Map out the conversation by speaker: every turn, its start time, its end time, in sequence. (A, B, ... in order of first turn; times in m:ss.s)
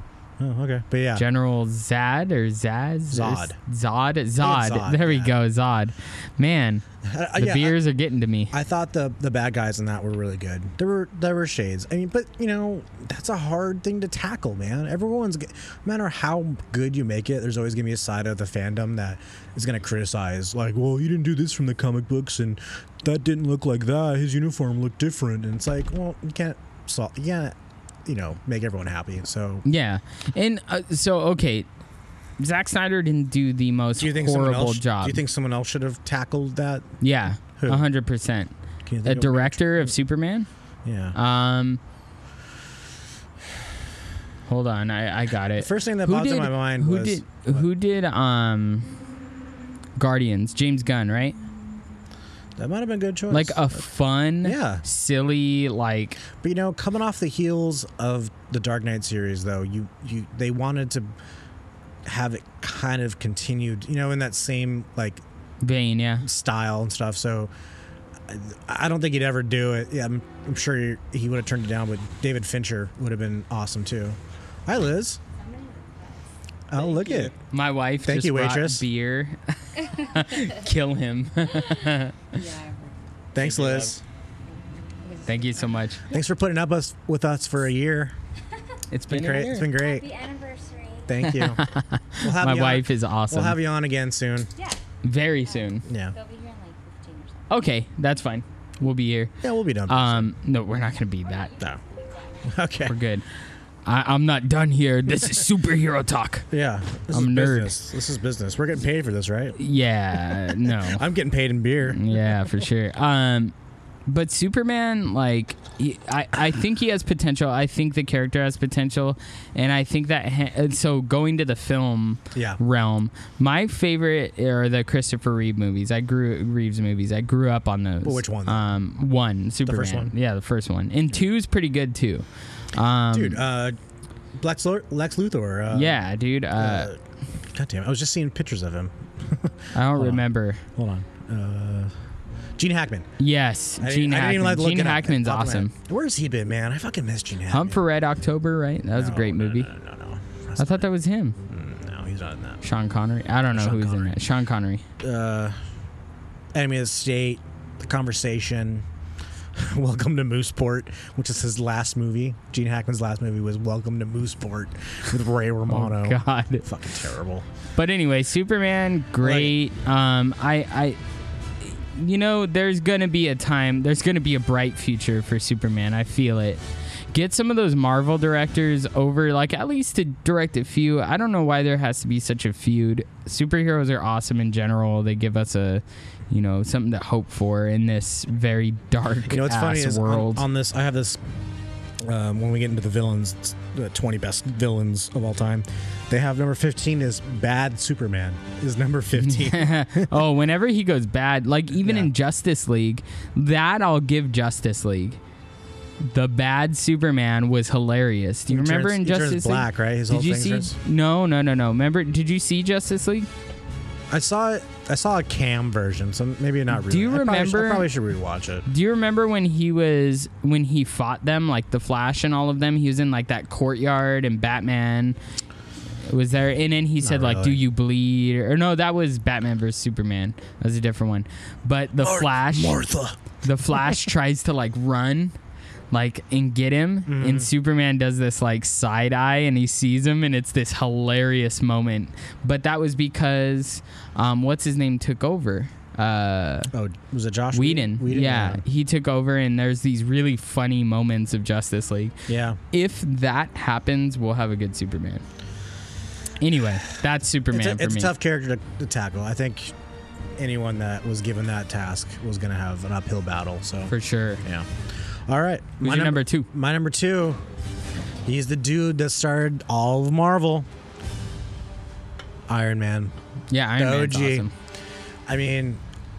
0:00.4-0:01.2 A
0:01.2-0:06.8 B
0:03.1-0:03.6 A
0:04.4-0:05.4 A
0:07.0-0:07.8 A
0:07.4-0:08.5 B
0:08.5-0:27.5 A
0:28.1-0:29.6 A
0:29.6-0:31.7 B
0:32.4-0:35.2 B
0:34.0-0:37.0 A
0:37.0-0:38.5 B
0:37.6-0:37.8 A
0:38.9-0:40.0 A
0:39.0-0:40.5 B
0:40.8-0:41.2 A
0:41.1-0:41.8 B
0:44.5-0:49.0 B
0:45.6-0:47.6 A
0:50.0-0:51.4 B
0:52.6-0:53.7 A
0:53.3-0:56.2 B
0:54.4-0:54.8 A
0:56.3-1:01.1 A
1:02.0-1:05.2 A
1:05.6-1:06.3 B
1:06.2-1:07.5 A
1:08.3-1:15.2 A
1:15.4-1:16.3 C
1:16.7-1:17.3 A
1:16.8-1:22.2 B
1:18.0-1:18.8 A
1:19.8-1:20.7 C
1:21.5-1:23.1 C
1:23.3-1:24.0 A
1:23.4-1:24.0 B
1:24.4-1:26.2 C
1:25.3-1:26.0 B
1:26.1-1:28.1 A
1:28.9-1:29.7 B
1:29.1-1:30.1 A
1:29.6-1:31.3 C
1:31.1-1:31.6 A
1:31.2-1:33.6 B
1:32.2-1:34.5 A
1:34.6-1:37.7 C
1:35.0-1:35.8 B
1:35.8-1:36.2 A
1:37.5-1:39.3 B
1:39.4-1:40.3 A
1:39.9-1:41.6 B
1:41.2-1:42.6 C
1:42.5-1:43.0 A
1:42.9-1:43.3 B
1:43.9-1:46.5 B
1:46.5-1:49.6 A
1:47.1-1:47.8 B
1:49.6-1:51.0 B
1:50.7-1:52.0 A
1:51.9-1:53.5 B
1:54.1-2:13.4 B
2:02.3-2:02.6 A
2:08.0-2:08.6 A
2:09.7-2:10.1 A
2:13.1-2:13.8 A
2:14.4-2:16.0 A
2:15.7-2:16.9 B
2:16.6-2:21.9 A
2:19.8-2:20.6 B
2:22.6-2:23.1 A
2:23.2-2:25.7 B
2:23.8-2:27.8 A
2:27.5-2:29.7 B
2:29.0-2:30.9 A
2:30.6-2:31.4 B
2:31.5-2:32.6 A
2:32.6-2:34.8 B
2:33.5-2:34.2 A
2:35.0-2:35.6 A
2:36.5-2:38.9 A
2:39.6-2:47.5 A
2:45.7-2:46.7 B
2:47.8-2:51.0 B
2:49.2-2:49.5 A
2:51.6-3:10.5 B
3:09.3-3:11.2 A
3:12.0-3:20.2 A
3:19.2-3:25.2 B
3:21.8-3:22.1 A
3:26.0-3:33.3 B
3:28.5-3:30.8 A
3:34.1-3:38.7 A
3:36.7-3:37.9 B
3:38.7-3:45.2 B
3:46.1-3:52.8 B
3:47.0-3:47.6 A
3:52.0-3:53.2 A
3:53.4-3:55.4 B
3:53.7-3:54.0 A
3:55.9-4:06.7 B
3:57.1-3:57.5 A
4:06.7-4:08.6 A
4:07.5-4:15.2 B
4:12.3-4:12.6 A
4:16.4-4:18.1 B
4:17.5-4:19.8 A
4:20.4-4:27.4 A
4:23.9-4:24.4 B
4:25.8-4:26.5 B
4:28.3-4:30.7 A
4:32.5-4:33.2 A
4:33.5-4:34.5 B
4:33.8-4:34.5 A
4:35.3-4:35.8 A